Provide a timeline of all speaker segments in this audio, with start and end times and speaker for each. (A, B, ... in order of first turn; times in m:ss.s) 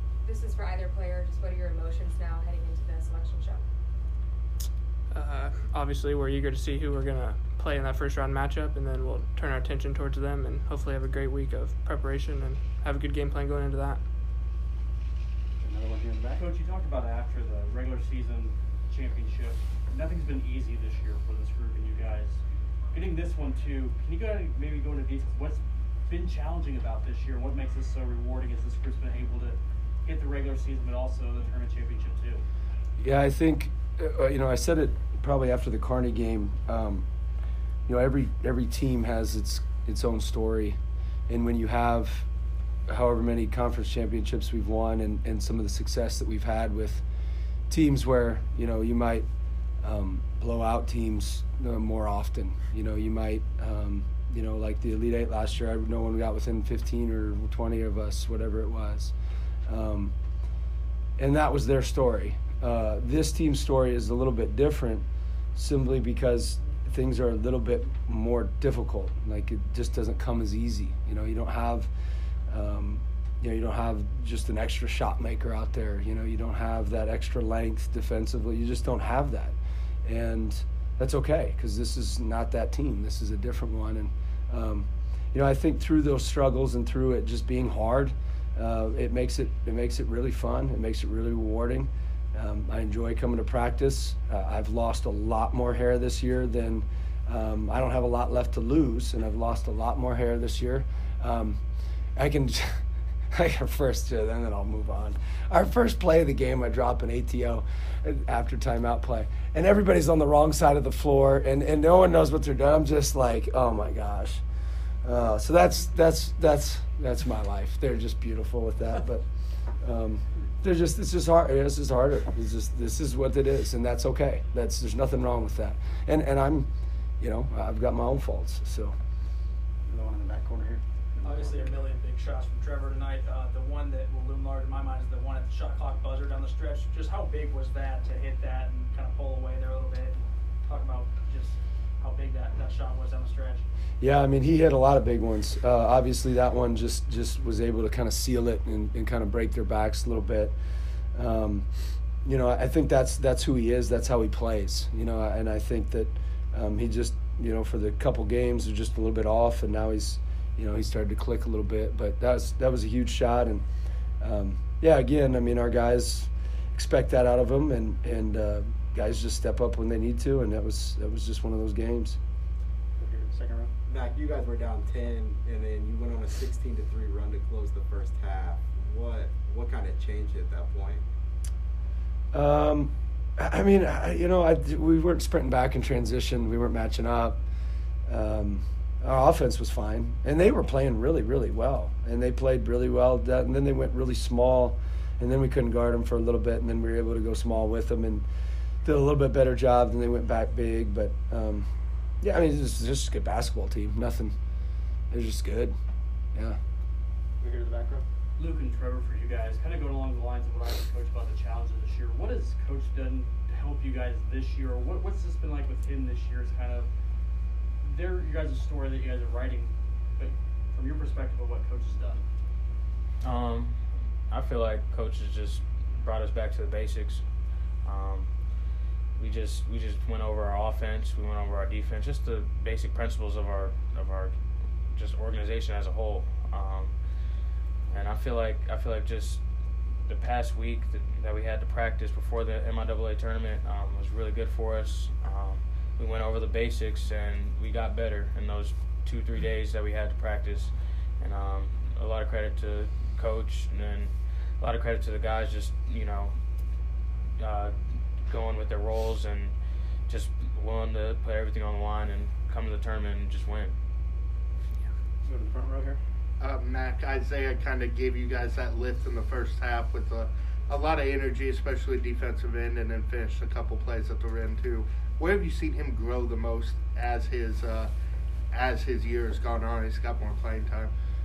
0:00.2-0:03.6 A
0:05.1-0:14.0 B
0:15.6-0:16.5 C
0:16.3-0:22.4 D
0:22.9-0:32.4 D
0:33.0-0:37.1 E
0:37.9-0:42.3 E
0:42.9-0:47.0 E
0:47.7-0:49.3 E
0:49.8-0:59.1 E
0:59.7-1:00.1 E
1:01.2-1:11.9 E
1:12.5-1:41.6 E
1:42.2-1:54.4 E
1:55.0-1:59.2 E
1:59.8-2:06.7 E
2:07.2-2:09.0 E
2:09.9-2:11.8 C
2:11.2-2:23.6 F
2:24.0-2:30.6 E
2:31.2-2:31.7 E
2:32.2-2:43.6 E
2:44.2-2:52.2 E
2:53.0-2:53.7 C
2:53.9-3:01.0 G
3:02.3-3:07.4 E
3:08.1-3:18.3 E
3:18.8-3:21.7 E
3:22.2-3:24.4 E
3:25.1-3:25.8 E
3:26.3-3:26.6 E
3:27.4-3:28.0 C
3:28.4-3:36.9 D
3:37.8-3:42.2 D
3:43.2-3:47.2 H
3:47.8-3:48.4 H
3:49.2-3:54.3 H
3:54.9-3:57.0 H
3:57.9-3:59.4 H
4:00.0-4:16.4 H
4:17.4-4:17.7 H
4:18.3-4:19.5 H
4:20.1-4:23.7 H
4:25.2-4:26.0 C
4:26.4-4:37.9 I
4:38.6-4:40.9 I